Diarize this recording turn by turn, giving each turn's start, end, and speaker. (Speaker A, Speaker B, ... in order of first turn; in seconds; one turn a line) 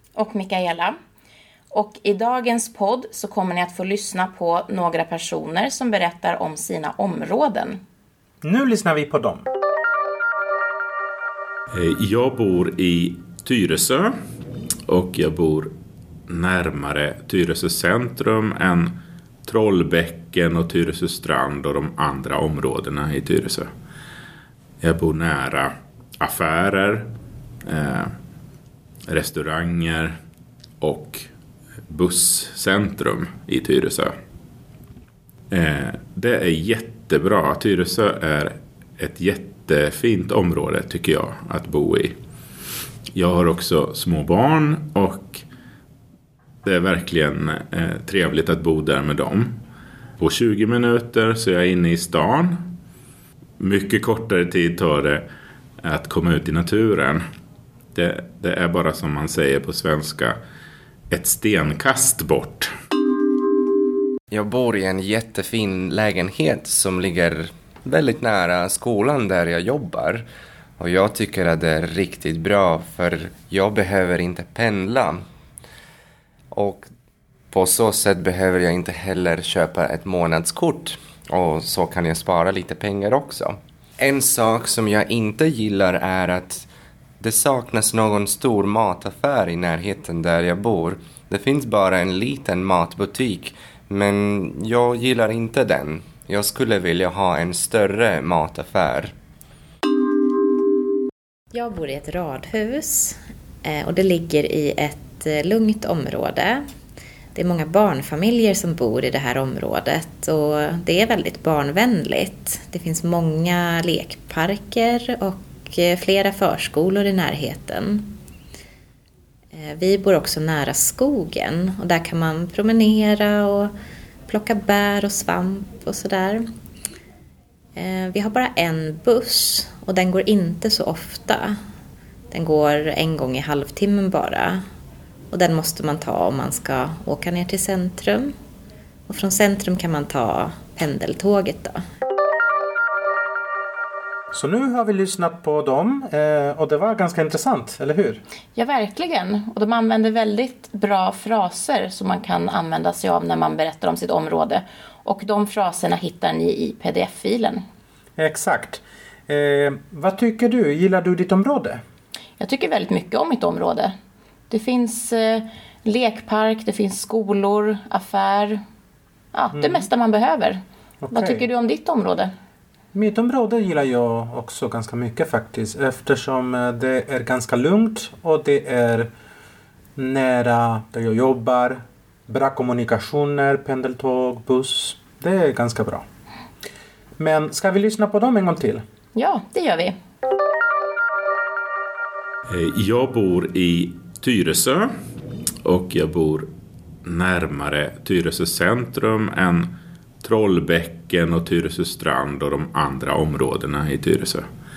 Speaker A: 0.2-0.9
Speaker A: 1.7-7.8
Speaker B: 8.4-9.4
Speaker C: 11.7-14.1
Speaker C: 14.9-15.7
Speaker C: 16.3-18.9
Speaker C: 19.5-23.7
Speaker C: 24.8-27.1
Speaker C: 27.7-28.1
Speaker C: 29.1-30.1
Speaker C: 30.8-31.3
Speaker C: 31.9-34.1
Speaker C: 35.5-42.2
Speaker C: 43.1-45.4
Speaker C: 46.6-49.6
Speaker C: 50.2-52.7
Speaker C: 53.6-55.2
Speaker C: 55.8-57.2
Speaker C: 57.9-60.4
Speaker C: 61.1-62.7
Speaker D: 64.3-70.2
Speaker D: 70.8-75.2
Speaker D: 76.5-76.9
Speaker D: 77.5-86.7
Speaker D: 87.2-99.1
Speaker E: 101.5-106.6
Speaker E: 107.3-118.1
Speaker E: 119.5-123.7
Speaker E: 124.3-126.4
Speaker E: 127.8-131.6
Speaker E: 132.3-134.6
Speaker E: 135.3-138.3
Speaker E: 139.1-141.8
Speaker B: 144.3-148.2
Speaker A: 148.6-157.6
Speaker B: 158.2-161.8
Speaker A: 162.4-163.9
Speaker A: 164.5-168.6
Speaker A: 169.3-170.6
Speaker B: 169.6-169.8
Speaker B: 171.1-171.4
Speaker A: 171.1-172.3
Speaker B: 172.9-179.1
Speaker B: 180.0-186.1
Speaker B: 187.2-188.8
Speaker A: 189.2-189.9
Speaker C: 192.5-194.9
Speaker C: 195.7-196.5
Speaker C: 197.1-199.7
Speaker C: 200.2-204.5